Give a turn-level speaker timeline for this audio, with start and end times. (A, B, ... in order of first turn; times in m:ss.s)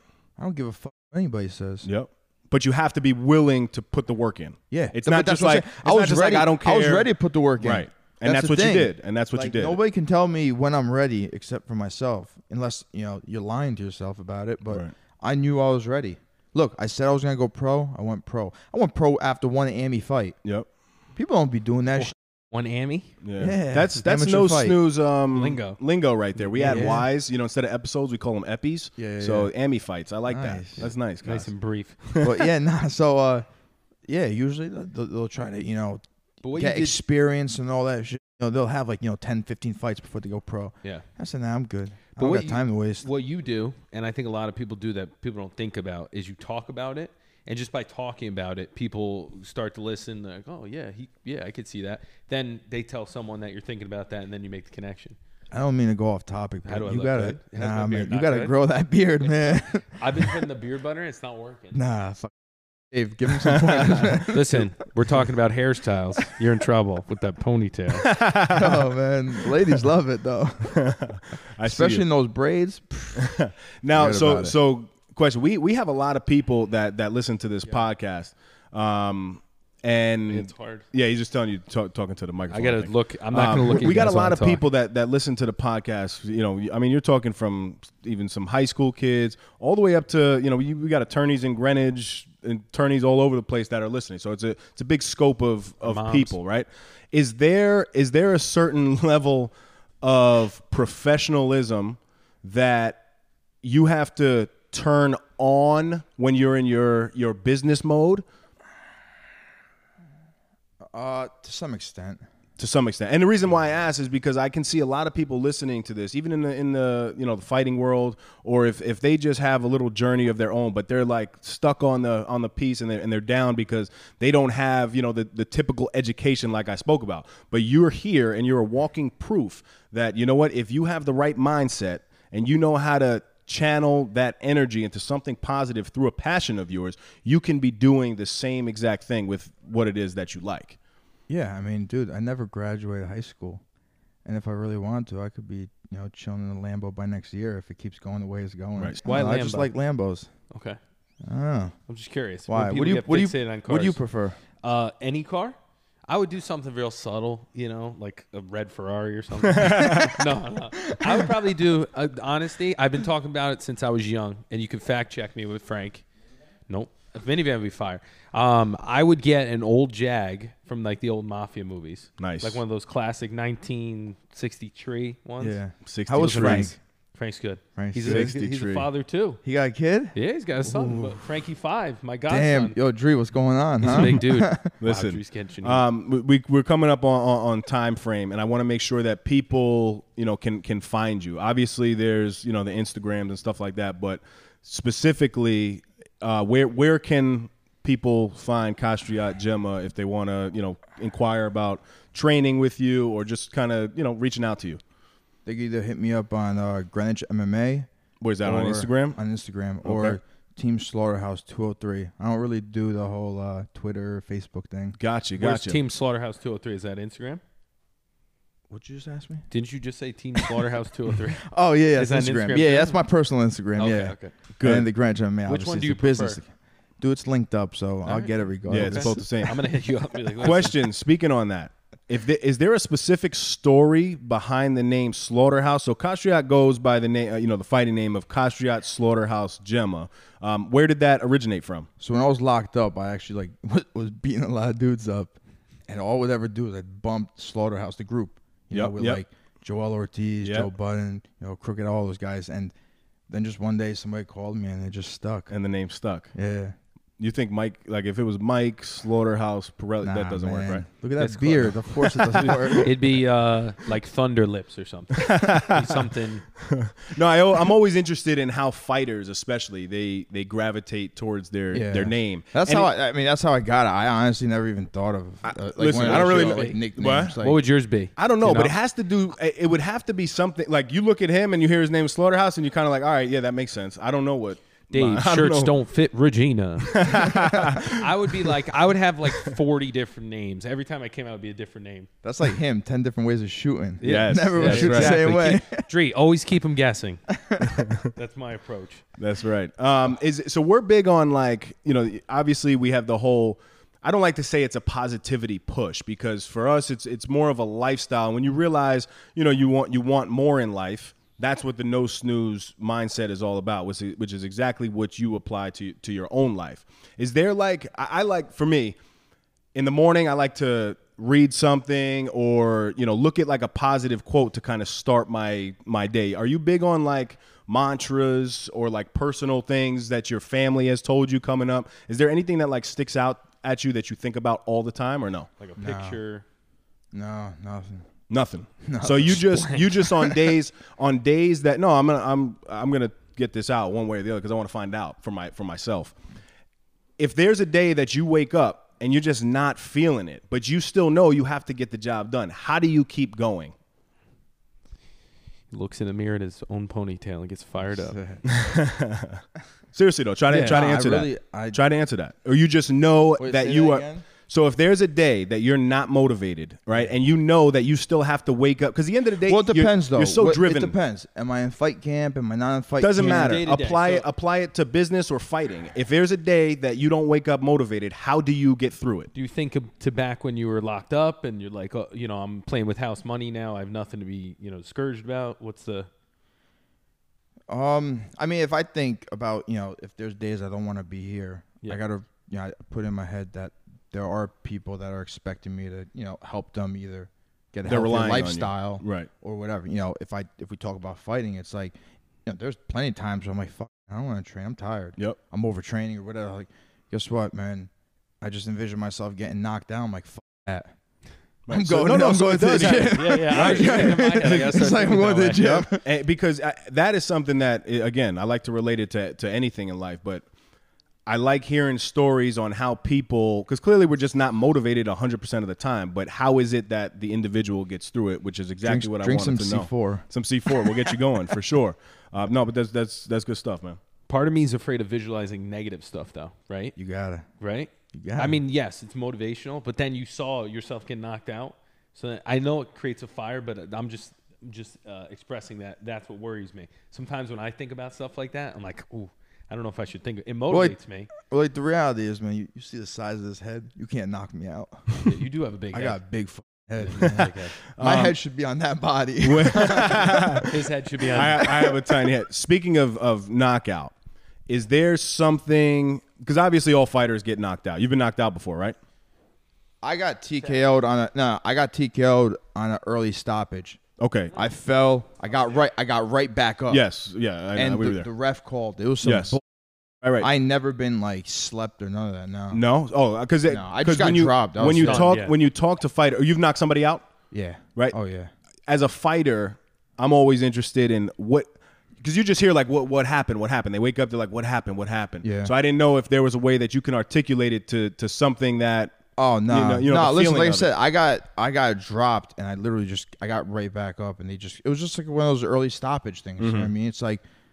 0:00.4-0:01.9 A
0:01.8-0:09.8 B
0:04.7-0:20.4 A
0:21.2-0:22.1 A
0:22.0-0:23.1 C
0:23.2-0:31.5 B
0:23.4-0:24.8 A
0:25.3-0:25.8 C
0:26.4-0:27.0 C
0:26.6-0:27.1 A
0:29.0-0:29.5 A
0:30.3-0:30.9 A
0:30.8-0:32.0 C
0:32.1-0:32.4 B
0:32.2-0:33.5 A
0:34.1-0:36.0 A
0:36.4-0:37.0 C
0:36.6-0:43.1 A
0:42.2-0:55.2 C
0:55.5-1:00.4 A
0:56.6-0:58.6 C
0:59.2-1:01.8 C
1:01.7-1:02.4 A
1:02.9-1:04.6 A
1:03.4-1:04.3 B
1:04.3-1:08.1 C
1:08.0-1:08.9 B
1:08.5-1:10.8 A
1:10.7-1:12.0 B
1:11.6-1:13.3 A
1:13.2-1:43.0 B
1:13.9-1:14.6 A
1:20.3-1:20.9 C
1:22.5-1:24.6 C
1:35.8-1:36.4 C
1:43.6-1:48.2 B
1:50.9-1:52.2 A
1:52.6-2:20.8 B
2:21.3-2:23.6 A
2:24.2-2:30.3 A
2:29.0-2:29.7 C
2:30.5-2:30.8 C
2:31.2-2:31.8 A
2:31.9-2:34.0 C
2:32.5-2:34.4 A
2:34.6-2:35.6 C
2:36.1-2:46.0 C
2:39.5-2:40.2 B
2:46.7-2:55.6 C
2:52.2-2:52.6 B
2:55.4-2:56.8 A
2:55.9-2:56.7 B
2:56.1-2:59.4 C
2:57.8-2:58.4 A
2:58.0-2:58.9 B
2:59.4-3:01.2 A
3:00.2-3:02.8 C
3:02.3-3:04.7 A
3:03.8-3:05.8 C
3:03.9-3:04.2 B
3:04.8-3:24.8 B
3:25.5-3:27.9 A
3:28.2-3:29.2 B
3:28.4-3:35.0 A
3:29.8-3:30.2 B
3:35.0-3:35.8 B
3:35.4-3:37.4 C
3:38.7-3:39.5 A
3:39.5-3:43.0 C
3:41.4-3:49.2 A
3:43.8-3:44.3 C
3:44.6-3:44.9 B
3:45.5-3:46.4 C
3:48.1-3:50.8 C
3:48.7-3:49.6 B
3:50.4-4:01.9 B
4:02.0-4:05.4 A
4:05.9-4:12.7 A
4:08.7-4:09.2 B
4:10.4-4:10.7 B
4:13.3-4:15.5 A
4:15.5-4:16.3 B
4:16.4-4:16.8 A
4:17.2-4:20.8 B
4:20.0-4:23.0 A
4:21.2-4:21.7 C
4:22.4-4:26.5 C
4:25.2-4:26.0 B
4:26.6-4:32.9 B
4:31.7-4:37.6 A
4:35.5-4:37.4 B
4:35.9-4:36.8 C
4:37.4-4:38.7 C
4:38.2-4:45.7 B
4:44.9-4:47.3 C
4:46.8-4:48.4 B
4:47.2-4:47.8 A
4:47.9-4:52.1 C
4:52.2-4:55.9 A
4:54.0-4:57.2 C
4:54.0-4:55.3 B
4:57.3-4:57.8 A
4:57.7-4:58.1 B
4:58.1-4:59.0 C
4:59.2-5:19.0 B
5:19.8-5:35.5 B
5:35.6-5:36.4 C
5:35.8-5:36.2 A
5:37.1-5:38.1 A
5:38.3-5:46.1 B
5:38.8-5:40.5 A
5:47.2-5:53.7 B
5:55.7-5:58.2 C
5:57.9-5:58.4 A
5:58.4-6:11.0 B
6:00.5-6:00.8 C
6:00.5-6:01.8 A
6:03.4-6:04.3 A
6:09.4-6:13.6 A
6:13.0-6:19.3 B
6:13.2-6:14.3 C
6:19.3-6:26.1 C
6:27.7-6:47.9 A
6:37.9-6:39.3 B
6:48.4-6:50.9 A
6:51.7-6:54.8 B
6:51.7-6:56.0 A
6:52.7-6:55.8 C
6:55.6-7:00.5 B
7:01.3-7:14.0 B
7:08.8-7:11.2 A
7:14.3-7:17.0 C
7:17.0-7:17.5 A
7:17.6-7:31.3 C
7:18.1-7:18.6 A
7:30.7-7:35.2 A
7:35.2-7:36.2 C
7:35.9-7:40.7 A
7:37.0-7:37.8 C
7:38.0-7:38.4 B
7:39.4-7:44.1 B
7:40.7-7:41.8 C
7:41.3-7:42.2 A
7:44.7-7:49.0 B
7:50.0-7:54.0 A
7:54.2-7:54.5 B
7:54.5-7:57.0 A
7:56.9-7:58.3 B
7:57.7-7:59.6 A
7:59.2-7:59.6 B
8:00.2-8:00.5 B
8:00.4-8:02.8 A
8:02.7-8:07.2 B
8:03.7-8:05.3 A
8:05.0-8:05.6 C
8:07.5-8:08.5 A
8:08.9-8:19.2 B
8:15.4-8:15.7 A
8:19.4-8:27.4 A
8:19.7-8:20.9 B
8:26.6-8:26.9 B